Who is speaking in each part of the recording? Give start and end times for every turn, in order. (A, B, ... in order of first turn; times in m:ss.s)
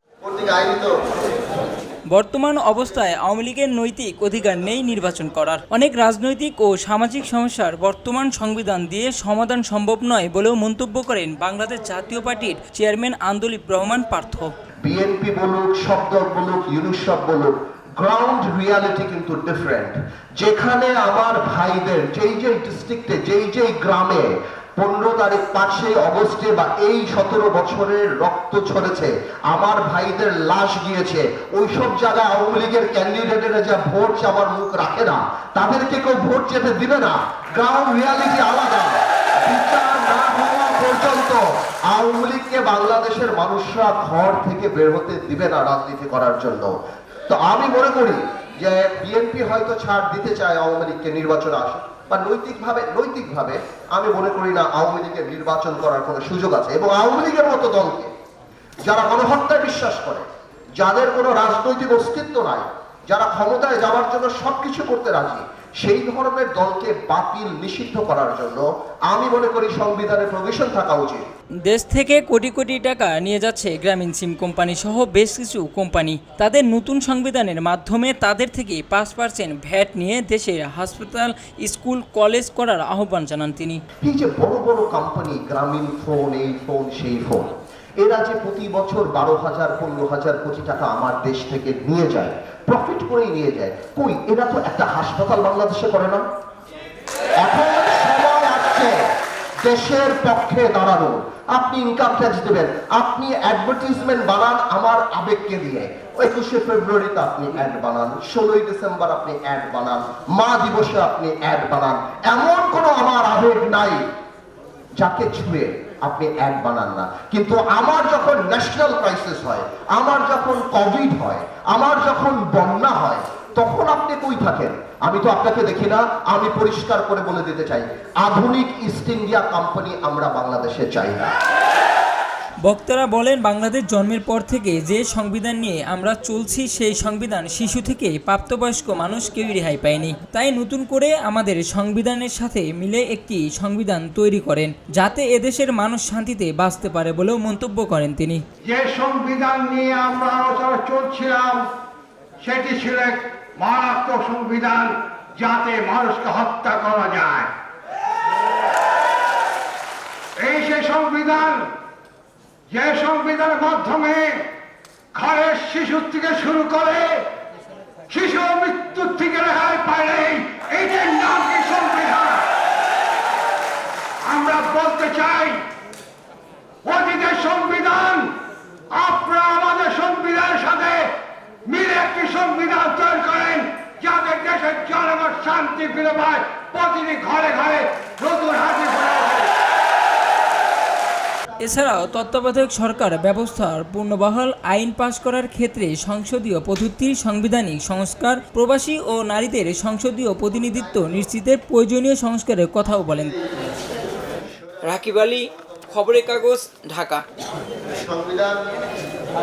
0:00.2-0:00.9 A
0:02.1-0:14.5 B
0:14.8-0:46.7 A
0:47.3-0:58.1 A
0:58.8-1:00.2 A
1:00.8-1:11.2 A
1:11.6-1:23.8 B
1:24.0-1:36.2 A
1:37.4-1:39.0 A
1:39.6-1:54.0 A
1:55.0-2:11.3 A
2:12.6-2:28.4 B
2:28.6-2:31.7 C
2:32.4-2:37.5 C
2:40.4-2:41.7 C
2:42.7-2:44.5 C
2:45.1-2:47.3 C
2:48.1-2:52.5 C
2:54.2-2:55.6 C
2:56.8-2:58.3 C
2:58.9-3:01.1 C
3:01.7-3:09.5 C
3:11.6-3:23.3 B
3:24.8-3:27.2 B
3:28.1-3:28.6 A